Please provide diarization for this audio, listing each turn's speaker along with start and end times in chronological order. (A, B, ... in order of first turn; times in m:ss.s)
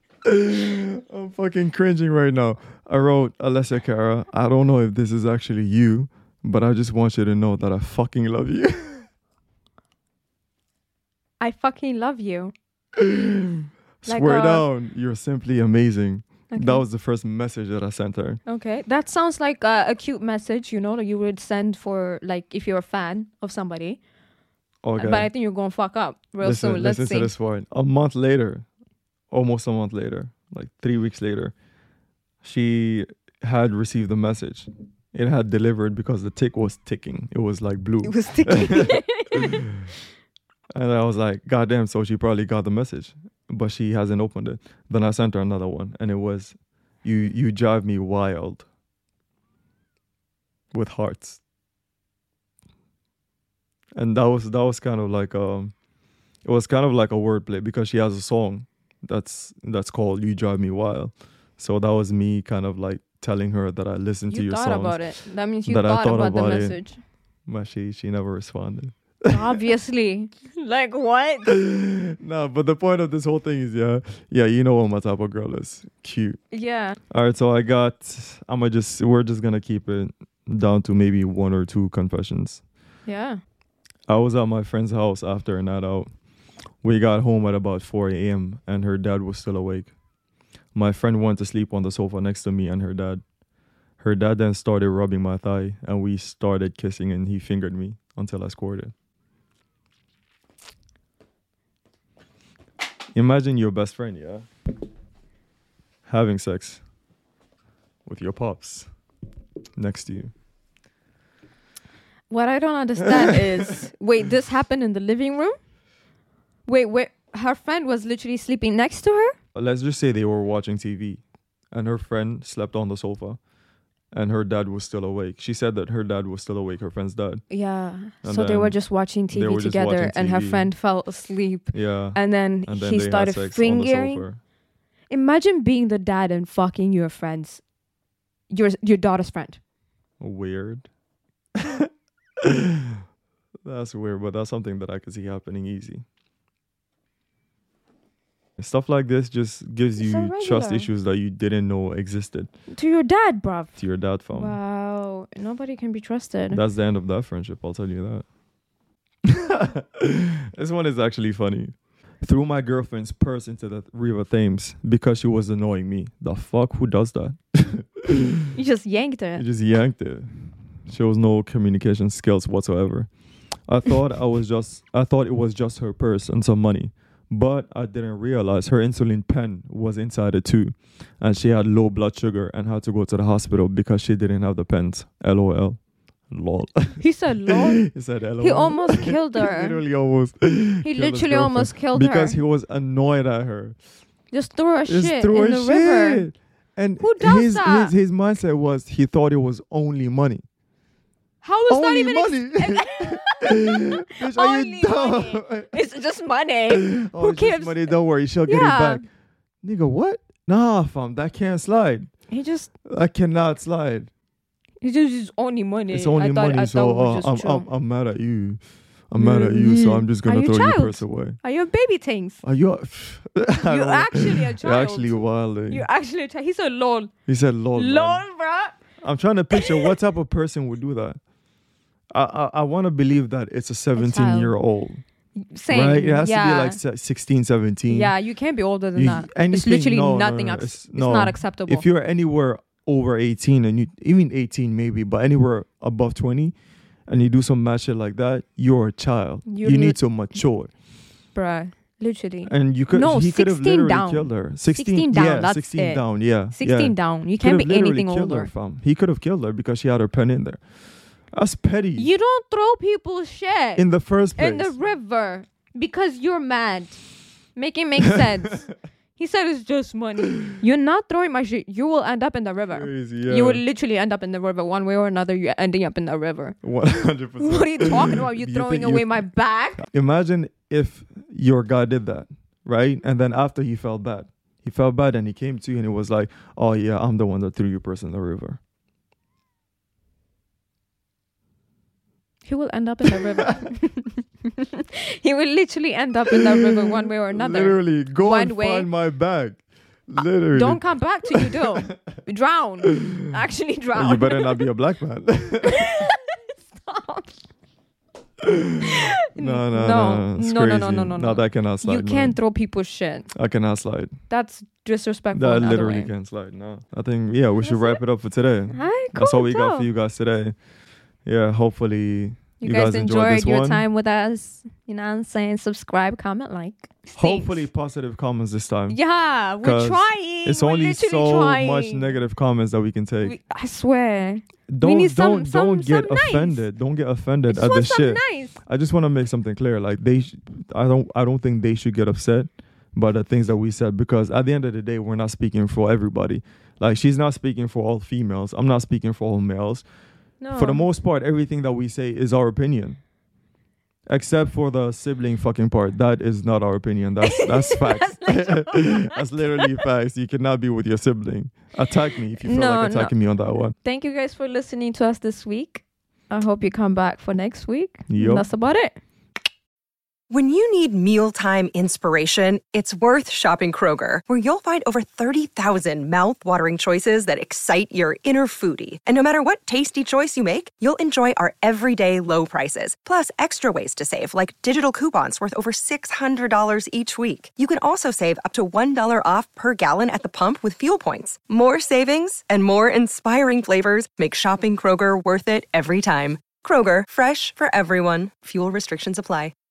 0:00.2-0:09.1 A
0:11.4-0:12.5 B
0:13.0-0:18.4 A
0:14.1-0:14.7 B
0:16.5-0:16.8 B
0:18.5-0:24.0 B
0:24.8-0:25.3 A
0:25.0-0:27.3 B
0:26.4-0:28.7 A
0:29.3-0:31.5 A
0:32.4-0:39.5 A
0:38.0-0:39.7 B
0:40.7-0:48.7 A
0:50.7-0:51.4 A
0:54.0-0:55.7 A
0:56.4-1:05.0 A
1:04.3-1:07.0 B
1:05.7-1:06.8 A
1:07.5-1:09.6 A
1:09.3-1:11.5 B
1:11.4-1:16.4 A
1:16.5-1:17.0 B
1:17.1-1:22.6 A
1:23.1-1:23.4 B
1:24.1-1:26.1 A
1:26.8-1:29.9 A
1:30.8-1:33.2 A
1:34.0-1:38.9 A
1:43.1-1:44.5 A
1:46.1-1:46.8 A
1:48.0-1:48.9 A
1:49.8-1:50.3 A
1:52.3-1:55.6 B
1:53.0-1:53.8 A
1:56.7-1:59.4 B
1:59.6-2:03.4 A
2:04.1-2:07.4 A
2:07.5-2:14.2 B
2:08.2-2:08.8 A
2:09.3-2:10.7 A
2:11.7-2:14.4 A
2:15.1-2:17.6 B
2:18.5-2:19.6 B
2:20.2-2:20.9 A
2:21.6-2:21.9 A
2:22.4-2:23.0 A
2:23.6-2:26.0 A
2:28.6-2:32.5 A
2:30.0-2:30.9 B
2:32.7-2:33.8 B
2:33.8-2:34.6 A
2:34.3-2:36.6 B
2:36.5-2:38.3 A
2:39.2-2:48.5 A
2:48.5-2:49.4 B
2:49.4-2:53.1 A
2:53.7-3:13.8 A
3:07.0-3:07.9 B
3:08.4-3:09.8 B
3:10.8-3:12.4 B
3:14.3-3:16.3 B
3:14.9-3:20.4 A
3:17.0-3:17.9 B
3:21.4-3:29.0 B
3:21.7-3:25.7 A
3:26.7-3:29.0 A
3:29.6-3:32.1 A
3:32.3-3:32.7 B
3:32.8-3:34.1 A
3:34.8-3:37.7 B
3:35.9-3:41.4 A
3:39.2-3:42.4 B
3:42.4-3:45.9 A
3:43.6-3:47.1 B
3:47.3-3:48.2 A
3:47.8-3:48.8 B
3:49.0-3:51.2 A
3:49.6-3:49.9 B
3:52.1-3:55.0 A
3:54.0-3:54.6 B
3:55.4-3:56.8 B
3:55.7-3:58.1 A
3:57.9-4:01.9 B
3:59.0-4:06.5 A
4:07.1-4:10.7 A
4:09.5-4:10.0 B
4:11.4-4:18.5 B
4:12.5-4:20.6 A
4:21.3-4:22.1 A
4:22.0-4:23.8 B
4:23.8-4:24.8 A
4:24.4-4:27.0 B
4:27.6-4:36.6 B
4:28.0-4:28.7 A
4:32.7-4:33.6 A
4:36.6-4:39.2 A
4:37.4-4:39.8 B
4:39.8-4:48.6 A
4:52.4-4:58.9 B
4:53.1-4:53.6 A
4:56.3-5:02.0 A
5:00.5-5:04.6 B
5:02.9-5:03.2 A
5:04.0-5:05.9 A
5:05.6-5:07.4 B
5:08.4-5:12.4 A
5:08.8-5:13.3 B
5:13.3-5:14.2 A
5:14.3-5:16.1 B
5:15.4-5:20.6 A
5:17.6-5:18.0 B
5:18.7-5:19.9 B
5:21.2-5:23.8 A
5:22.6-5:27.7 B
5:27.2-5:29.0 A
5:28.9-5:32.2 B
5:29.6-5:33.4 A
5:33.2-5:36.7 B
5:34.7-5:49.9 A
5:37.5-5:38.6 B
5:50.4-5:50.9 B
5:50.5-5:53.0 A
5:54.1-6:03.8 A
5:57.2-5:59.8 B
6:02.4-6:03.1 B
6:03.8-6:09.0 B
6:08.1-6:08.5 A
6:10.3-6:39.5 C